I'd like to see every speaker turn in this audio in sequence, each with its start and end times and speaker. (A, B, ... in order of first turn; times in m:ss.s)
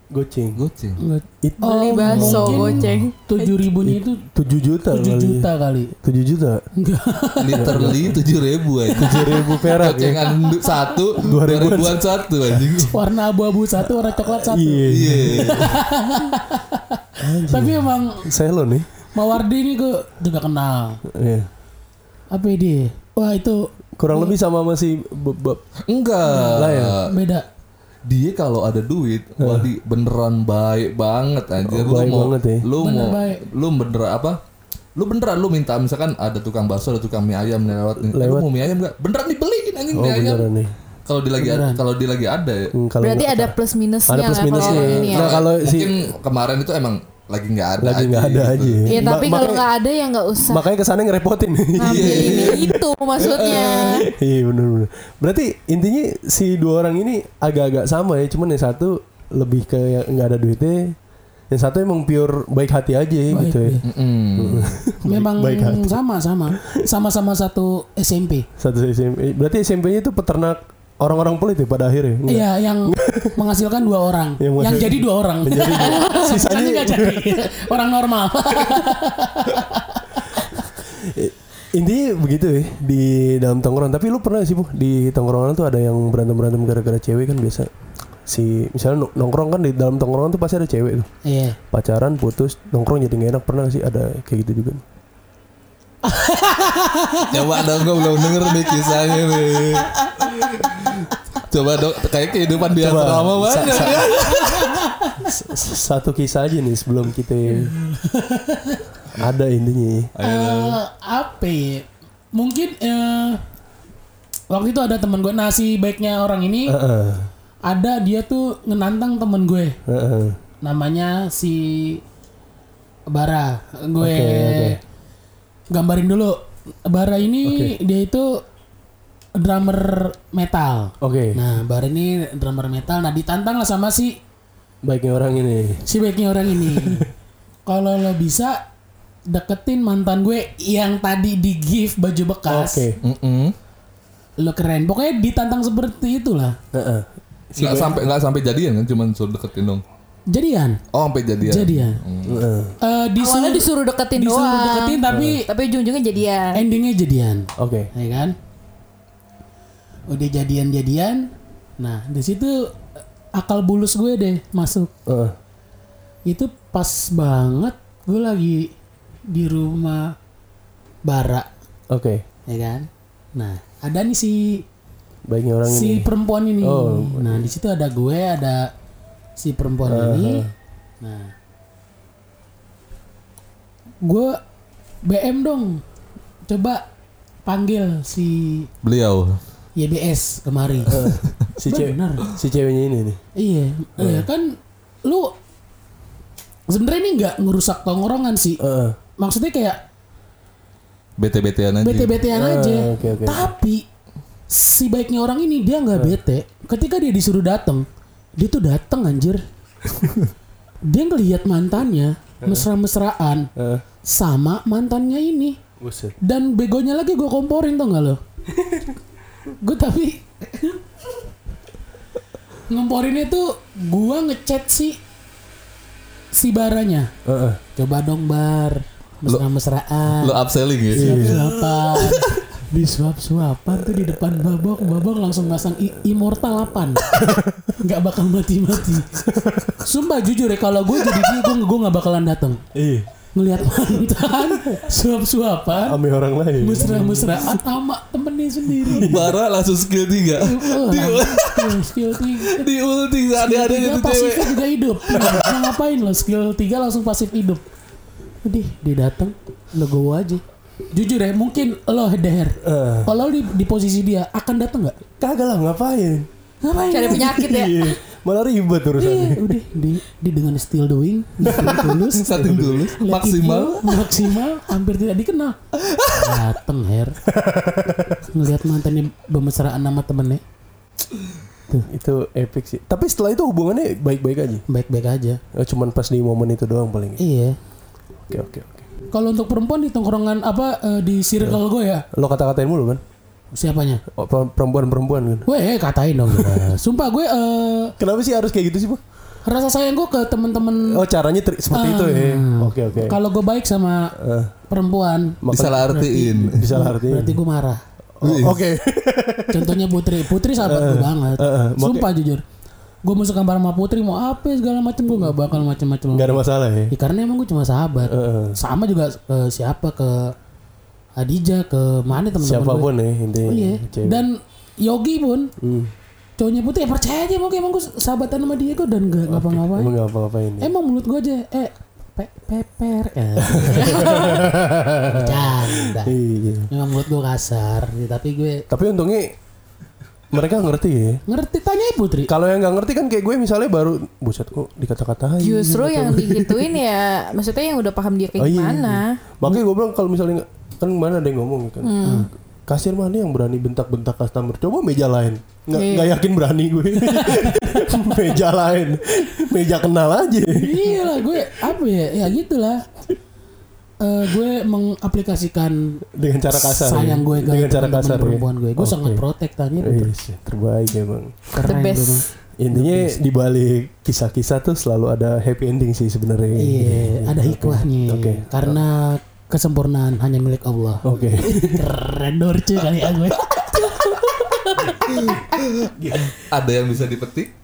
0:00.1-0:00.6 A
0:00.6-0:01.0 B
0:01.0-0:04.2 C
0:01.4-0:03.1 A
0:01.6-0:03.6 D
0:03.8-0:06.6 A
0:04.9-0:06.0 C
0:06.8-0:07.9 C
0:07.4-0:13.0 B
0:07.5-0:08.2 A
0:08.9-0:09.7 C
0:08.9-0:10.2 A
0:11.2-0:12.9 A
0:12.8-0:18.3 C
0:13.8-0:15.8 A
0:14.8-0:15.8 B
0:17.2-0:18.9 A
0:19.1-0:21.0 C
0:21.1-0:21.5 A
0:22.3-0:24.3 C
0:24.0-0:25.6 A
0:25.9-0:27.2 B
0:26.3-0:27.5 C
0:26.4-0:27.0 A
0:28.1-0:34.4 B
0:29.4-0:29.7 A
0:31.6-0:32.6 A
0:32.8-0:33.4 C
0:35.0-0:40.5 B
0:38.1-0:38.5 A
0:39.9-0:40.7 A
0:41.1-0:42.7 B
0:41.4-0:41.8 C
0:42.7-0:43.6 A
0:43.0-0:45.4 D
0:44.1-0:46.1 A
0:44.5-0:48.9 B
0:47.8-0:49.7 A
0:48.9-0:50.7 D
0:50.4-0:52.8 A
0:51.8-0:54.1 D
0:51.8-0:54.1 B
0:53.4-1:01.0 A
1:01.5-1:03.8 A
1:03.3-1:03.8 C
1:03.8-1:04.8 B
1:04.4-1:06.0 A
1:05.0-1:08.5 C
1:08.6-1:13.4 A
1:12.3-1:20.7 C
1:14.4-1:17.5 A
1:18.6-1:18.9 A
1:20.7-1:27.7 A
1:28.3-1:31.1 A
1:31.2-1:31.6 C
1:31.7-1:34.8 A
1:36.0-1:39.6 C
1:37.2-1:44.8 B
1:42.7-1:44.2 A
1:43.7-1:45.4 C
1:45.2-1:47.7 A
1:47.8-1:48.9 C
1:49.1-1:50.1 A
1:50.2-1:50.8 B
1:50.2-1:53.4 C
1:54.5-1:56.8 C
1:56.7-1:57.3 A
1:57.6-1:59.8 C
1:59.9-2:00.4 A
2:00.6-2:02.0 C
2:03.1-2:04.8 C
2:04.0-2:04.8 A
2:05.7-2:08.4 C
2:07.4-2:07.8 A
2:09.4-2:14.2 C
2:11.0-2:11.4 A
2:14.8-2:15.8 A
2:15.9-2:17.1 C
2:16.6-2:17.1 A
2:17.7-2:18.6 C
2:19.3-2:22.9 C
2:22.5-2:23.0 A
2:23.0-2:23.6 B
2:24.4-2:26.6 C
2:26.7-2:28.1 A
2:27.6-2:29.8 B
2:27.7-2:27.9 C
2:30.3-2:30.8 C
2:30.9-2:32.4 B
2:31.4-2:32.0 C
2:32.3-2:32.8 A
2:32.8-2:35.5 C
2:33.2-2:36.6 D
2:35.1-2:35.4 A
2:36.5-2:38.4 C
2:37.6-2:37.9 A
2:40.1-2:42.8 C
2:43.4-2:44.9 C
2:45.1-2:45.4 A
2:46.3-2:48.7 C
2:49.3-2:50.2 C
2:51.0-2:51.5 C
2:51.9-2:52.2 A
2:52.5-2:54.6 C
2:55.3-2:56.1 A
2:55.7-2:58.7 C
2:56.6-2:57.5 A
2:59.4-3:00.4 C
2:59.9-3:00.5 A
3:01.0-3:01.3 C
3:04.0-3:04.4 C
3:05.0-3:05.8 C
3:06.5-3:06.8 C
3:07.5-3:08.7 C
3:08.8-3:09.4 B
3:09.8-3:12.3 C
3:10.9-3:13.2 A
3:13.4-3:15.3 C
3:14.0-3:14.3 A
3:16.7-3:18.6 C
3:18.6-3:19.0 A
3:19.2-3:19.8 C
3:21.2-3:22.2 B
3:21.8-3:23.8 C
3:22.3-3:23.5 A
3:24.5-3:27.8 C
3:28.4-3:29.4 C
3:30.9-3:33.5 C
3:33.6-3:33.8 A
3:34.0-3:35.6 C
3:35.8-3:36.2 A
3:36.2-3:38.2 C
3:38.6-3:38.9 A
3:39.6-3:40.8 C
3:42.7-3:45.0 C
3:46.3-3:47.1 C
3:47.2-3:47.6 A
3:47.8-3:50.4 C
3:50.1-3:52.4 B
3:50.9-3:51.5 A
3:51.0-3:57.2 C
3:57.2-3:57.8 A
3:57.8-3:59.2 C
3:59.2-3:59.8 A
3:59.8-4:02.6 C
4:02.8-4:03.1 A
4:03.4-4:06.0 C
4:05.8-4:07.6 A
4:06.6-4:09.3 C
4:08.8-4:09.4 A
4:09.0-4:15.7 B
4:10.4-4:12.7 C
4:13.4-4:17.6 C
4:18.4-4:25.0 C
4:22.6-4:23.1 A
4:25.2-4:26.3 A
4:26.6-4:27.8 C
4:26.9-4:27.9 D
4:27.1-4:29.6 A
4:29.0-4:32.3 C
4:31.4-4:32.9 A
4:32.1-4:34.2 B
4:33.0-4:35.6 C
4:35.8-4:36.5 B
4:36.1-4:37.2 C
4:37.3-4:38.3 A
4:38.3-4:40.4 C
4:41.8-4:44.6 A
4:44.7-4:45.4 C
4:45.5-4:47.2 A
4:47.2-4:47.6 C
4:48.3-4:48.9 A
4:49.1-4:52.0 C
4:52.1-4:53.0 A
4:53.5-4:54.0 C
4:54.1-4:55.5 A
4:55.5-4:58.0 C
4:56.3-4:56.8 A
4:58.0-4:59.0 A
4:59.4-5:01.0 C
5:00.8-5:03.2 A
5:01.7-5:04.1 C
5:04.2-5:04.5 A
5:04.7-5:07.8 C
5:05.4-5:07.4 A
5:05.5-5:06.7 B
5:08.2-5:10.0 A
5:08.2-5:08.6 B
5:09.5-5:12.4 C
5:10.6-5:12.1 A
5:13.0-5:20.4 C
5:16.1-5:16.9 A
5:18.1-5:18.6 A
5:21.2-5:22.9 C
5:22.4-5:24.3 A
5:23.5-5:25.5 C
5:25.6-5:25.9 A
5:26.4-5:29.9 C
5:29.3-5:30.7 A
5:30.6-5:34.6 C
5:33.4-5:36.7 A
5:35.1-5:36.2 C
5:36.7-5:38.6 C
5:38.7-5:39.4 A
5:40.3-5:41.2 A
5:41.3-5:42.3 C
5:42.3-5:46.8 A
5:45.4-5:49.2 D
5:48.4-5:52.0 A
5:51.8-5:52.3 D
5:52.0-5:52.3 C
5:52.7-6:01.4 A
5:55.7-5:56.2 D
5:57.0-5:58.3 C
6:00.5-6:02.8 C
6:04.0-6:10.1 C
6:06.2-6:09.2 A
6:09.8-6:11.5 A
6:11.5-6:13.1 C
6:11.6-6:12.3 D
6:12.6-6:18.8 A
6:16.6-6:25.4 C
6:21.0-6:21.8 A
6:25.0-6:27.6 B
6:25.9-6:26.3 A